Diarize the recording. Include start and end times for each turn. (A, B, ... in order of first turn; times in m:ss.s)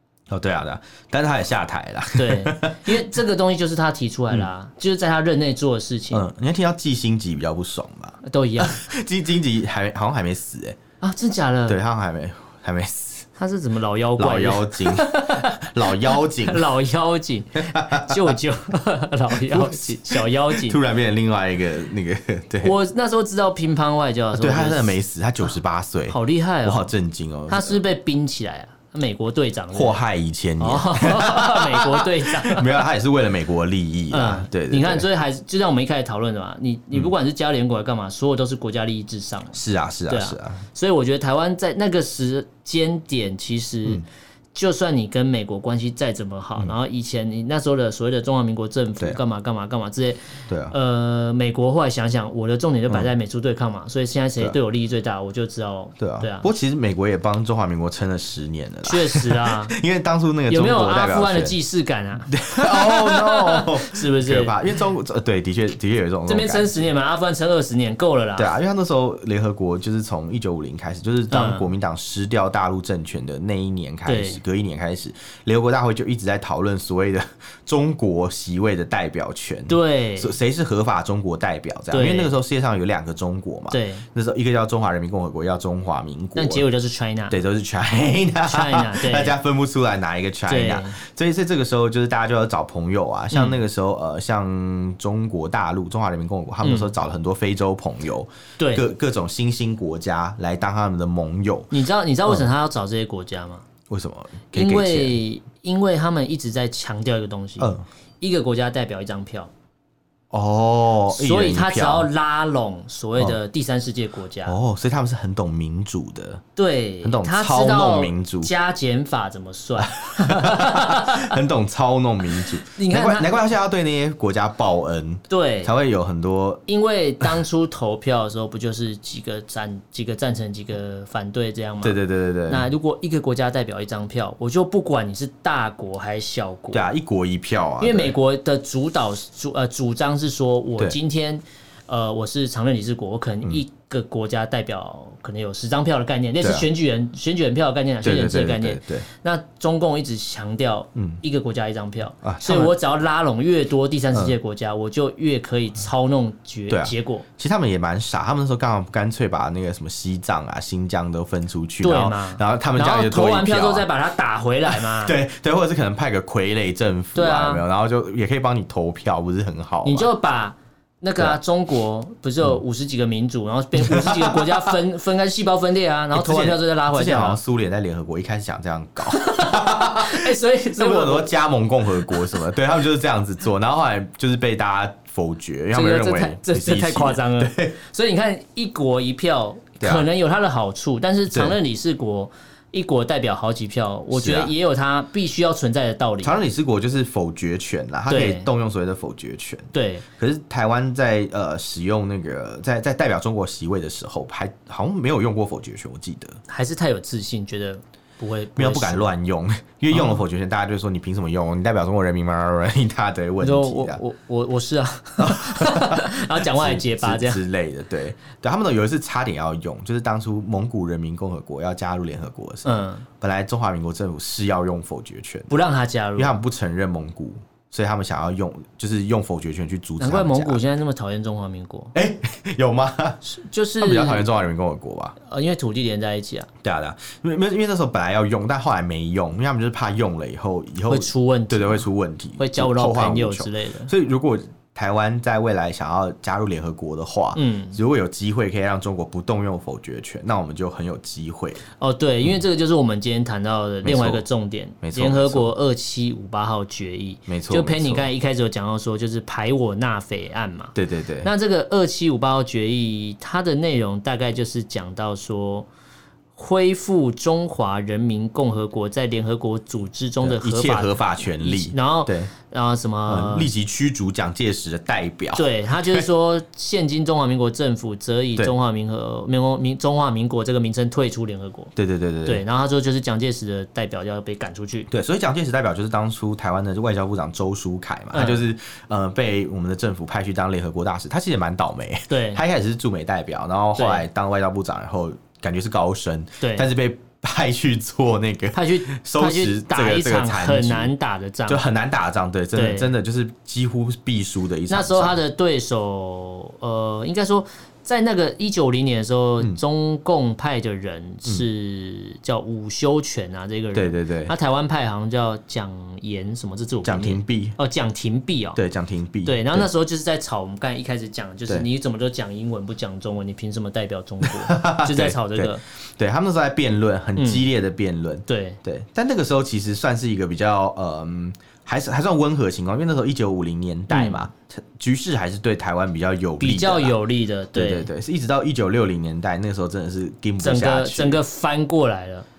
0:00.3-0:03.1 A
0:02.2-0:06.2 B
0:06.1-0:10.8 A
0:08.2-0:08.8 B
0:11.0-0:11.8 B
0:11.7-0:13.3 A
0:13.4-0:20.8 B
0:14.2-0:16.7 A
0:17.6-0:18.3 A
0:19.4-0:22.7 A
0:22.6-0:25.0 B
0:24.3-0:27.8 A
0:26.1-0:26.9 B
0:27.5-0:30.0 B
0:29.7-0:35.1 A
0:30.6-0:32.8 B
0:34.1-0:56.5 B
0:39.5-0:40.6 A
0:50.5-0:50.7 A
0:56.0-1:01.6 A
0:58.8-0:59.7 B
1:00.5-1:04.6 B
1:02.3-1:06.9 A
1:06.3-1:08.5 B
1:08.4-1:26.6 A
1:11.3-1:11.7 B
1:14.0-1:14.4 B
1:19.7-1:20.3 B
1:21.9-1:22.3 B
1:23.7-1:24.0 B
1:26.3-1:27.4 B
1:27.3-1:41.7 A
1:28.5-1:29.4 B
1:30.5-1:31.0 B
1:33.3-1:33.6 B
1:36.6-1:36.9 B
1:38.6-1:38.8 B
1:41.7-1:43.6 B
1:43.9-1:45.2 A
1:44.5-1:49.5 B
1:47.6-1:47.8 A
1:50.3-1:52.1 A
1:51.1-1:54.6 B
1:54.4-1:56.4 A
1:56.6-2:01.4 B
1:57.0-1:58.5 A
1:59.8-2:06.6 A
2:02.6-2:03.4 B
2:05.3-2:05.7 B
2:06.7-2:16.8 B
2:11.8-2:12.7 A
2:16.7-2:18.1 A
2:17.8-2:37.2 B
2:26.4-2:26.7 A
2:28.0-2:29.1 A
2:31.0-2:31.2 A
2:32.2-2:32.7 A
2:36.7-2:43.9 A
2:41.8-2:45.2 B
2:44.7-2:50.1 A
2:47.1-2:47.6 B
2:49.8-2:57.4 B
2:53.8-2:54.8 A
2:56.1-3:07.8 A
2:59.0-3:01.3 B
3:02.0-3:02.4 B
3:05.7-3:16.4 B
3:09.8-3:10.0 A
3:11.3-3:11.6 A
3:14.1-3:14.5 A
3:16.2-3:26.4 A
3:18.1-3:18.5 B
3:19.7-3:20.0 B
3:26.5-3:29.1 B
3:28.6-3:34.0 A
3:29.9-3:30.2 B
3:33.4-3:37.4 B
3:35.2-3:45.5 A
3:42.6-3:43.0 B
3:45.5-3:46.3 B
3:46.2-3:50.6 A
3:50.0-3:51.9 B
3:51.9-3:53.2 A
3:53.2-3:54.3 B
3:53.8-3:55.2 A
3:55.2-3:56.5 B
3:56.6-4:11.6 A
4:00.9-4:01.9 B
4:02.4-4:03.9 B
4:07.3-4:07.8 B
4:11.8-4:25.7 B
4:13.8-4:14.2 A
4:14.8-4:15.5 A
4:17.3-4:18.1 A
4:20.7-4:21.3 A
4:26.3-4:33.5 B
4:30.2-4:32.3 A
4:33.1-4:36.0 A
4:35.4-4:41.7 B
4:41.8-4:42.4 A
4:42.2-4:44.9 B
4:44.9-5:00.9 A
4:48.1-4:48.4 B
4:52.1-4:52.4 B
4:53.8-4:54.0 B
4:56.4-4:56.7 B
4:58.5-5:01.6 B
5:01.5-5:05.2 A
5:02.5-5:02.9 B
5:04.7-5:18.6 B
5:13.7-5:14.3 A
5:16.8-5:17.6 A
5:18.5-5:19.7 A
5:19.2-5:25.6 B
5:24.2-5:37.0 A
5:27.2-5:27.4 B
5:28.3-5:28.6 B
5:33.9-5:34.2 B
5:36.4-5:37.9 B
5:37.5-5:41.2 A
5:40.4-5:42.3 B